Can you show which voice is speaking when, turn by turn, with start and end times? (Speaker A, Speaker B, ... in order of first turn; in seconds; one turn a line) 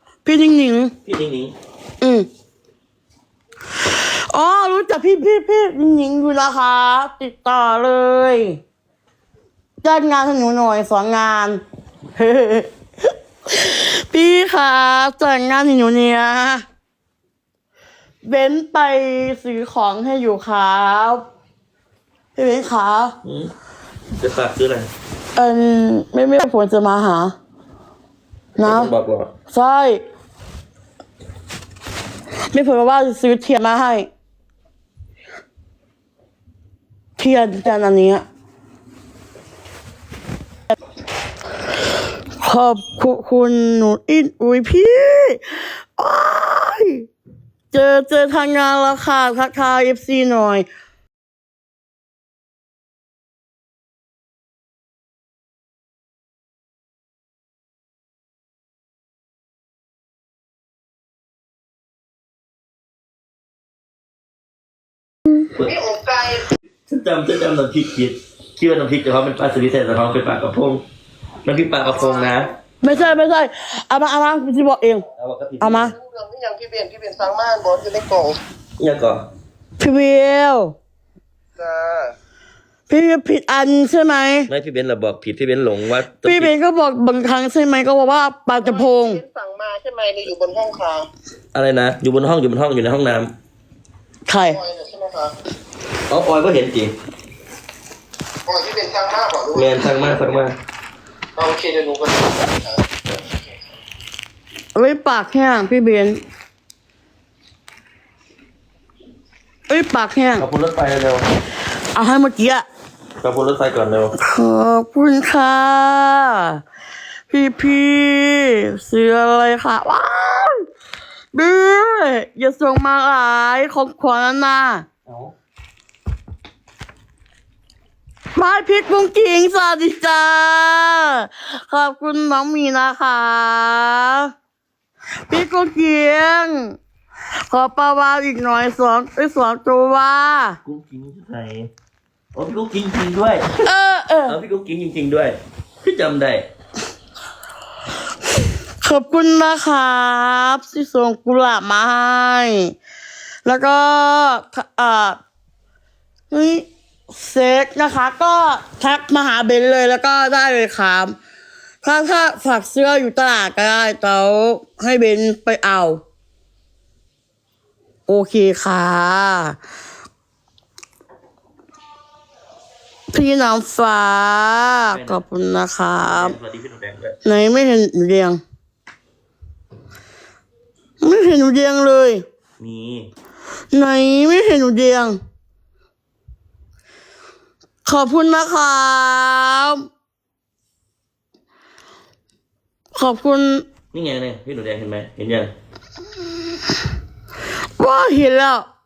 Speaker A: 0.2-0.9
Speaker B: 1.0-1.5
Speaker A: 2.0-2.3
Speaker A: 3.8-8.6
Speaker A: 9.8-11.6
Speaker A: 12.2-16.6
Speaker A: 18.2-21.2
Speaker A: 22.4-23.1
Speaker B: 23.2-23.5
Speaker B: 24.2-24.9
Speaker A: 25.4-27.4
Speaker A: 28.6-28.9
Speaker B: 28.6-29.3
Speaker A: 29.5-30.0
Speaker A: 32.5-34.1
Speaker A: 37.2-38.2
Speaker A: 42.4-47.1
Speaker A: 47.7-50.7
Speaker B: 65.5-65.9
Speaker C: 65.7-66.5
Speaker B: 66.9-70.8
Speaker B: 71.5-73.0
Speaker A: 72.8-75.0
Speaker B: 75.2-75.9
Speaker A: 75.6-75.9
Speaker C: 76.0-78.4
Speaker B: 78.8-79.2
Speaker A: 79.8-80.8
Speaker C: 81.6-82.1
Speaker A: 82.9-84.5
Speaker B: 84.5-86.5
Speaker A: 86.2-89.2
Speaker C: 88.8-91.1
Speaker B: 91.5-93.3
Speaker A: 94.3-94.6
Speaker C: 94.6-95.3
Speaker B: 96.1-96.9
Speaker C: 98.5-99.7
Speaker B: 99.5-100.5
Speaker C: 101.4-102.7
Speaker A: 104.8-106.2
Speaker A: 109.7-110.5
Speaker B: 110.4-111.2
Speaker A: 111.9-112.7
Speaker B: 113.2-114.1
Speaker A: 114.2-116.6
Speaker A: 117.3-120.7
Speaker A: 121.3-124.9
Speaker B: 125.1-125.3
Speaker A: 128.3-134.3
Speaker A: 135.3-136.8
Speaker A: 137.5-140.6
Speaker B: 140.6-141.7
Speaker B: 142.3-143.5
Speaker A: 143.5-144.4
Speaker B: 144.3-146.4
Speaker A: 148.8-152.8
Speaker A: 153.4-155.2
Speaker A: 156.3-161.2
Speaker A: 161.8-166.0
Speaker A: 168.1-169.6
Speaker A: 173.1-176.4
Speaker B: 174.9-175.2
Speaker B: 176.0-177.2
Speaker A: 177.2-178.4
Speaker A: 181.0-182.2
Speaker B: 182.6-183.1
Speaker A: 183.7-185.2
Speaker A: 187.8-189.8
Speaker A: 192.9-193.7
Speaker B: 193.9-195.5
Speaker A: 197.8-198.7